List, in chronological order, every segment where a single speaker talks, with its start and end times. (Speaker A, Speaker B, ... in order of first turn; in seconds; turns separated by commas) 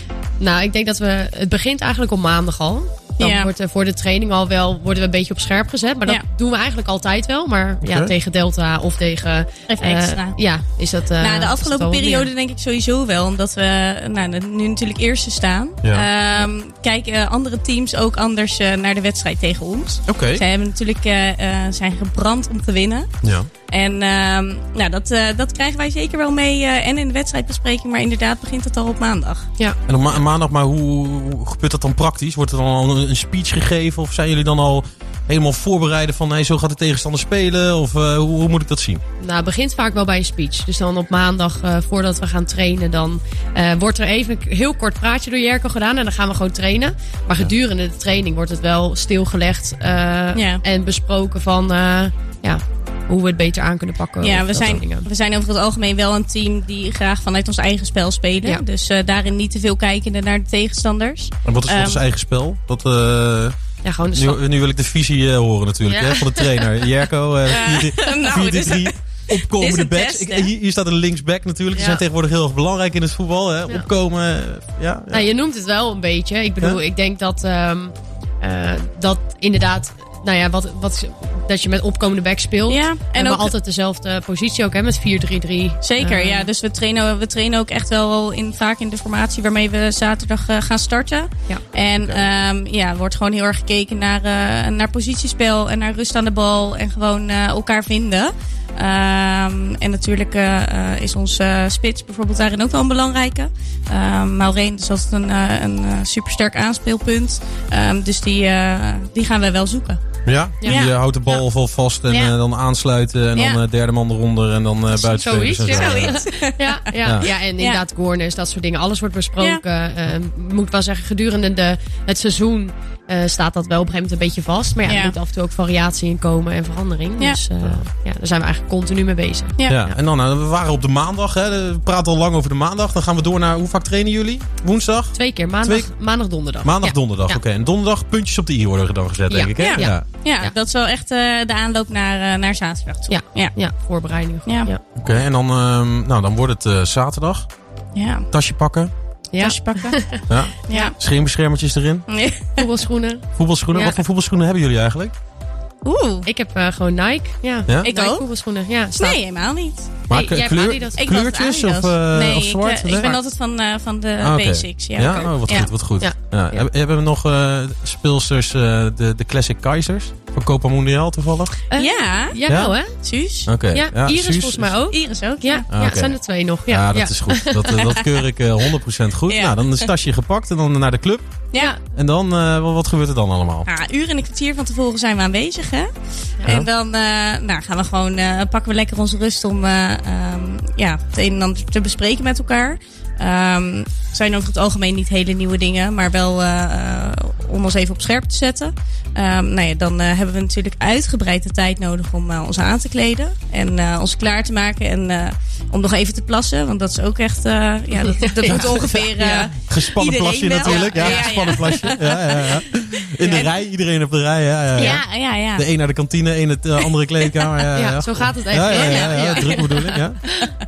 Speaker A: 0.4-12.3, Speaker B: 3.2-3.5, Speaker C: 7.8-8.1, Speaker B: 9.7-10.4, Speaker B: 11.2-23.1, Speaker C: 20.1-20.4, Speaker C: 23.2-23.5, Speaker B: 23.7-29.5, Speaker C: 29.9-39.0, Speaker A: 39.2-55.0, Speaker B: 50.3-50.6, Speaker B: 54.2-62.0, Speaker C: 61.4-63.6, Speaker A: 63.8-64.4, Speaker C: 64.1-75.2, Speaker A: 65.8-66.7, Speaker B: 67.5-70.5, Speaker A: 71.7-72.0, Speaker A: 75.1-86.5, Speaker B: 82.7-83.5, Speaker B: 85.8-110.0, Speaker C: 92.0-92.2, Speaker C: 110.2-116.3, Speaker B: 110.6-111.4, Speaker A: 114.9-129.9, Speaker B: 115.5-117.8, Speaker B: 124.8-125.1, Speaker C: 129.7-140.0, Speaker A: 135.1-137.4, Speaker A: 139.3-140.6, Speaker B: 139.6-143.6, Speaker A: 143.1-144.8, Speaker B: 144.4-144.7, Speaker C: 144.9-147.5, Speaker B: 147.9-148.3, Speaker C: 148.3-148.9, Speaker A: 149.3-150.2, Speaker B: 149.4-150.9, Speaker C: 150.3-152.1, Speaker B: 152.1-152.6, Speaker A: 152.6-154.0, Speaker C: 153.3-155.1, Speaker B: 155.8-156.3, Speaker A: 156.2-159.2, Speaker B: 157.8-158.3, Speaker B: 159.0-160.0, Speaker A: 160.1-161.1, Speaker C: 160.1-163.2, Speaker B: 161.0-165.7, Speaker C: 164.2-171.6, Speaker A: 166.0-166.7, Speaker A: 171.7-173.2, Speaker B: 171.8-172.4, Speaker C: 172.5-172.7, Speaker B: 173.0-173.5, Speaker C: 173.4-174.8, Speaker A: 173.7-177.9, Speaker B: 174.9-176.0, Speaker C: 175.7-183.7, Speaker B: 179.3-179.8, Speaker B: 181.5-181.8, Speaker B: 183.7-185.9, Speaker B: 186.4-212.6, Speaker A: 208.1-208.7, Speaker C: 208.4-220.2, Speaker A: 210.7-211.6, Speaker B: 213.2-213.5, Speaker B: 214.8-215.6, Speaker A: 214.8-215.1, Speaker A: 217.7-220.0, Speaker B: 218.7-220.5